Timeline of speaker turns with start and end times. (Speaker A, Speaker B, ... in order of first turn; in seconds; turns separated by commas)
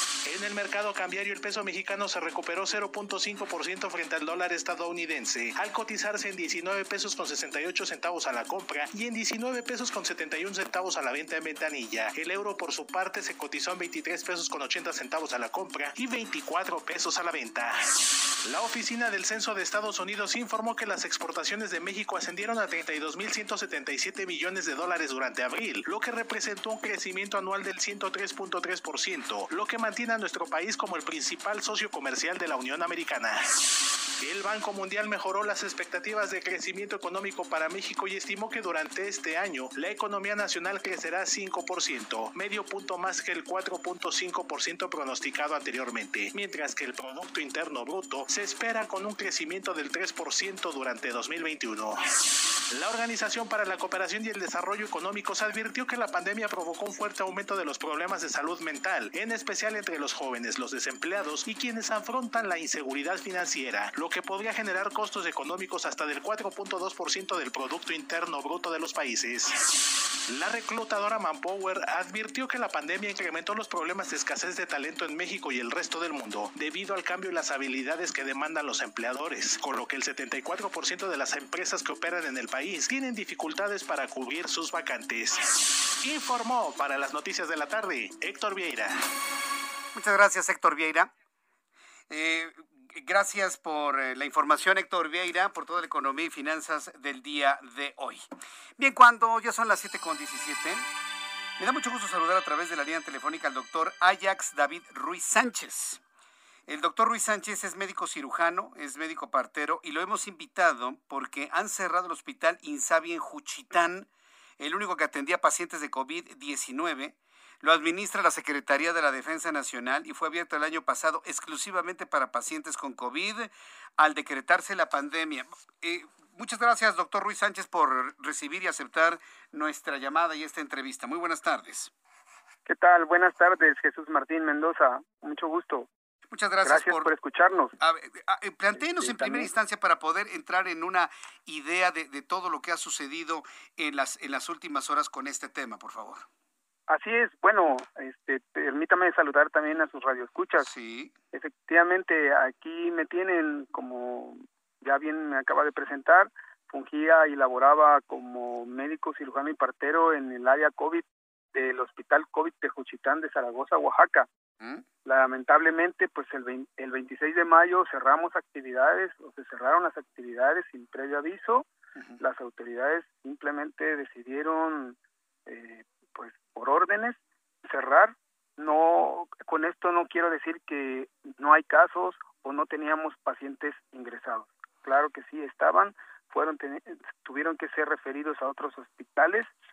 Speaker A: 0.2-33.6, Speaker A: 34.2-69.7, Speaker A: 70.3-89.0, Speaker B: 89.9-91.1, Speaker B: 92.1-100.9, Speaker B: 101.6-106.0, Speaker B: 106.7-131.9, Speaker C: 132.7-135.9, Speaker B: 136.3-137.1, Speaker C: 136.6-137.7, Speaker B: 137.8-146.2, Speaker C: 138.8-139.5, Speaker C: 146.9-150.7, Speaker B: 150.6-151.1, Speaker C: 151.3-164.3, Speaker C: 165.0-171.7, Speaker B: 171.9-172.2, Speaker C: 172.2-189.5